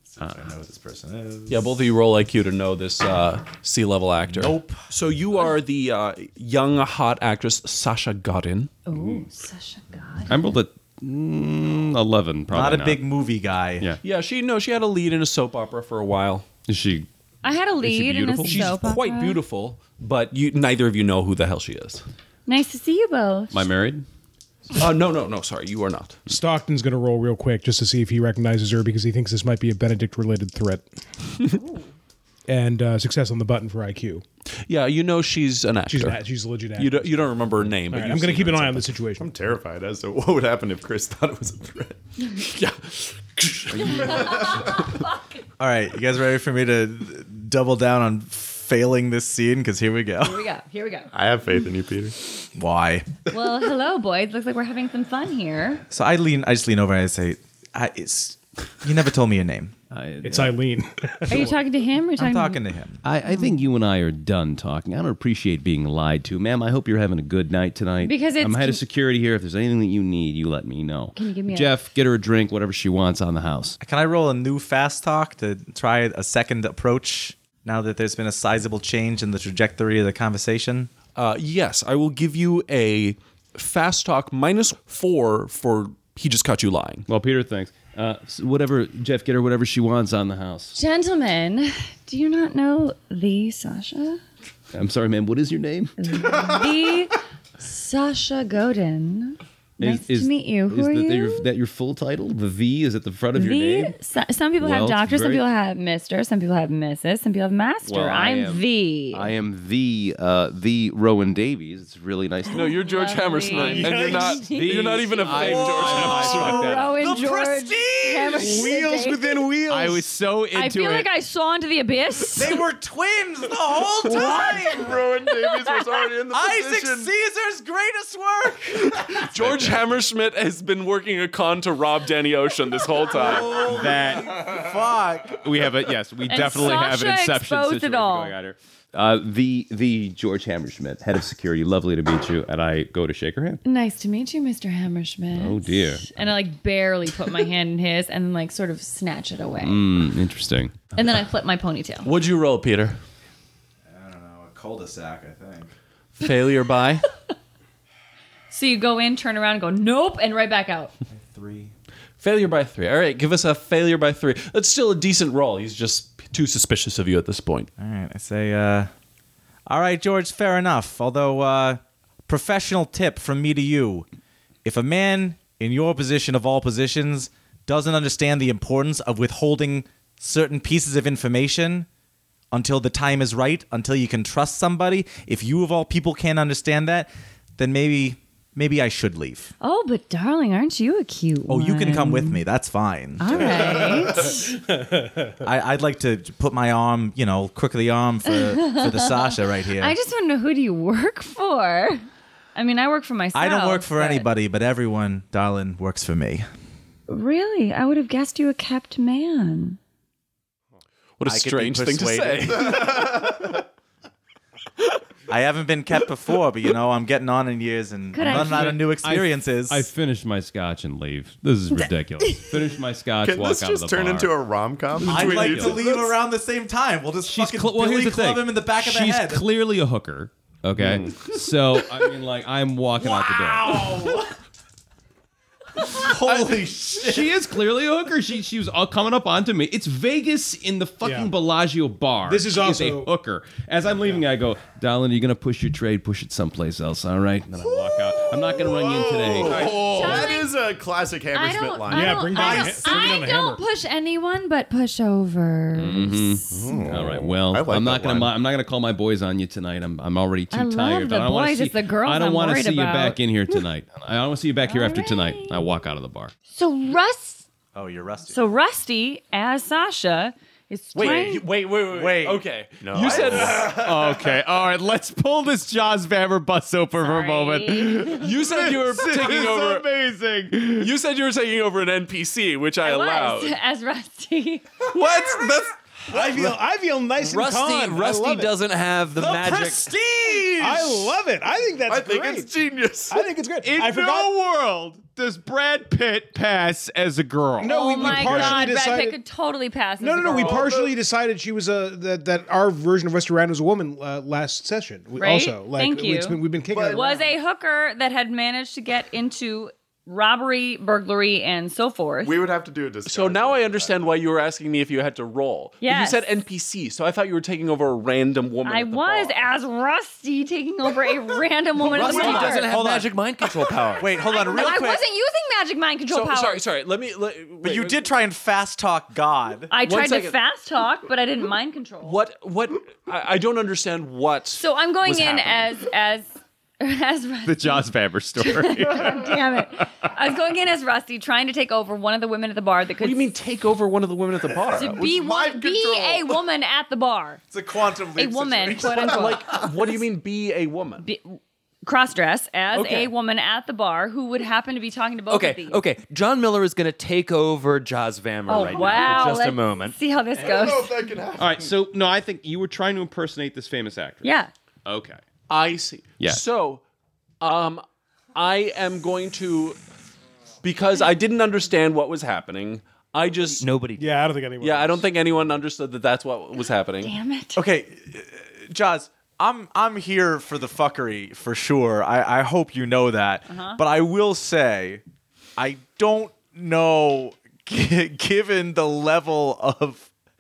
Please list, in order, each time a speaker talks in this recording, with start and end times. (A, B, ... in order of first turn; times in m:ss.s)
0:00.1-0:01.8 A
0:01.5-0:08.7 B
0:04.3-0:04.8 A
0:08.9-0:10.4 C
0:10.3-0:13.0 D
0:12.5-0:14.0 A
0:14.0-0:16.5 B
0:16.7-0:17.1 D
0:17.4-0:19.4 C
0:17.8-0:18.7 D
0:18.4-0:22.0 B
0:22.5-0:23.5 C
0:23.5-0:24.0 D
0:24.8-0:26.2 B
0:26.3-0:30.9 E
0:31.5-0:31.9 C
0:32.5-0:34.2 E
0:34.7-0:36.2 B
0:35.9-0:39.3 E
0:36.8-0:39.0 B
0:39.2-0:42.0 F
0:42.4-0:44.6 B
0:43.7-0:44.1 D
0:43.8-0:45.2 C
0:44.2-0:44.7 F
0:45.6-0:50.4 A
0:50.2-0:51.1 C
0:51.1-0:52.2 F
0:52.5-0:53.3 A
0:53.3-0:55.8 C
0:55.9-0:59.8 A
0:59.9-1:00.6 D
1:00.2-1:01.6 E
1:01.3-1:02.6 C
1:02.2-1:03.0 A
1:03.0-1:13.8 D
1:03.3-1:03.6 C
1:08.0-1:08.8 C
1:11.2-1:11.8 C
1:13.8-1:20.9 A
1:21.2-1:27.1 B
1:27.1-1:30.8 D
1:30.7-1:34.2 C
1:34.7-1:36.5 D
1:36.0-1:41.4 C
1:39.8-1:43.9 D
1:43.3-1:49.3 C
1:44.6-1:45.4 D
1:47.8-1:52.9 D
1:52.5-2:00.0 C
1:52.5-1:56.9 B
1:53.5-1:57.0 D
1:53.7-1:54.4 E
1:55.4-1:58.6 A
1:58.4-1:59.9 E
1:58.5-2:01.1 D
2:00.5-2:02.6 C
2:02.4-2:05.0 A
2:04.0-2:05.9 C
2:04.1-2:07.1 F
2:06.3-2:09.2 A
2:08.9-2:13.6 B
2:09.3-2:09.8 F
2:13.1-2:15.5 A
2:13.6-2:14.4 D
2:15.4-2:23.6 D
2:16.3-2:18.4 C
2:23.6-2:29.8 C
2:25.4-2:26.3 D
2:29.6-2:30.9 D
2:30.9-2:32.1 C
2:32.0-2:33.0 B
2:33.9-2:35.7 A
2:36.2-2:37.0 B
2:38.5-2:40.9 C
2:41.1-2:41.7 A
2:42.2-2:47.7 B
2:47.8-2:48.9 A
2:49.7-2:54.1 A
2:54.6-3:01.9 A
3:02.5-3:09.5 A
3:09.6-3:12.4 C
3:11.5-3:14.3 A
3:13.2-3:14.5 C
3:13.8-3:15.4 E
3:15.4-3:20.0 A
3:18.3-3:22.0 C
3:22.6-3:24.3 C
3:23.3-3:26.5 A
3:27.1-3:29.8 C
3:31.2-3:33.6 B
3:31.2-3:32.8 A
3:32.6-3:33.5 F
3:35.3-3:39.9 A
3:38.1-3:38.9 C
3:38.3-3:44.3 D
3:43.2-3:45.8 F
3:45.0-3:46.0 D
3:45.0-3:49.5 A
3:45.1-3:45.7 B
3:47.2-3:54.0 D
3:50.8-3:51.4 F
3:53.0-3:54.3 A
3:55.8-3:57.4 A
3:56.3-4:10.3 D
4:01.0-4:01.3 E
4:02.2-4:03.1 E
4:08.6-4:12.8 F
4:09.5-4:10.6 C
4:11.3-4:16.8 C
4:11.9-4:13.6 E
4:15.8-4:26.3 D
4:16.5-4:18.3 F
4:20.5-4:23.2 C
4:24.6-4:25.6 C
4:26.5-4:27.4 C
4:27.7-4:28.4 A
4:28.3-4:31.5 C
4:31.0-4:33.9 B
4:31.8-4:34.0 A
4:32.8-4:33.5 G
4:33.4-4:40.9 D
4:37.0-4:38.4 C
4:38.1-4:39.9 B
4:40.8-4:43.6 B
4:42.8-4:45.4 C
4:44.9-4:45.7 B
4:46.1-4:48.5 E
4:46.2-4:46.5 A
4:47.2-4:49.9 G
4:49.2-4:51.2 A
4:50.5-4:52.5 E
4:51.9-4:53.3 F
4:53.1-4:54.4 E
4:53.6-4:58.5 D
4:57.6-4:59.2 E
4:57.6-5:00.7 C
5:00.0-5:07.4 E
5:00.4-5:01.0 F
5:05.2-5:12.3 C
5:06.7-5:07.0 F
5:12.2-5:14.1 F
5:13.1-5:19.5 B
5:15.8-5:16.2 C
5:18.6-5:22.8 C
5:21.8-5:23.1 A
5:21.9-5:24.1 G
5:22.1-5:22.5 B
5:24.0-5:25.0 A
5:24.2-5:26.6 C
5:26.1-5:28.1 B
5:27.6-5:29.7 A
5:29.7-5:32.2 C
5:29.8-5:30.4 B
5:32.0-5:35.7 B
5:34.5-5:36.3 C
5:36.8-5:43.3 C
5:37.4-5:40.1 D
5:43.0-5:45.1 B
5:44.6-5:46.4 F
5:44.8-5:47.4 C
5:47.5-5:49.4 A
5:48.2-5:49.7 C
5:49.0-5:51.1 B
5:51.0-5:55.8 C
5:52.7-5:53.1 B
5:55.3-6:00.0 G
5:58.5-6:01.1 C
5:58.8-5:59.1 B
6:00.4-6:01.7 F
6:01.4-6:04.2 D
6:04.2-6:04.5 C
6:04.9-6:05.2 D
6:05.5-6:06.8 B
6:07.4-6:07.8 B
6:08.4-6:09.8 B
6:10.6-6:13.6 B
6:13.6-6:14.1 G
6:14.0-6:15.1 E
6:14.6-6:17.1 B
6:17.0-6:17.6 C
6:17.6-6:25.0 A
6:23.5-6:23.8 C
6:25.6-6:30.1 A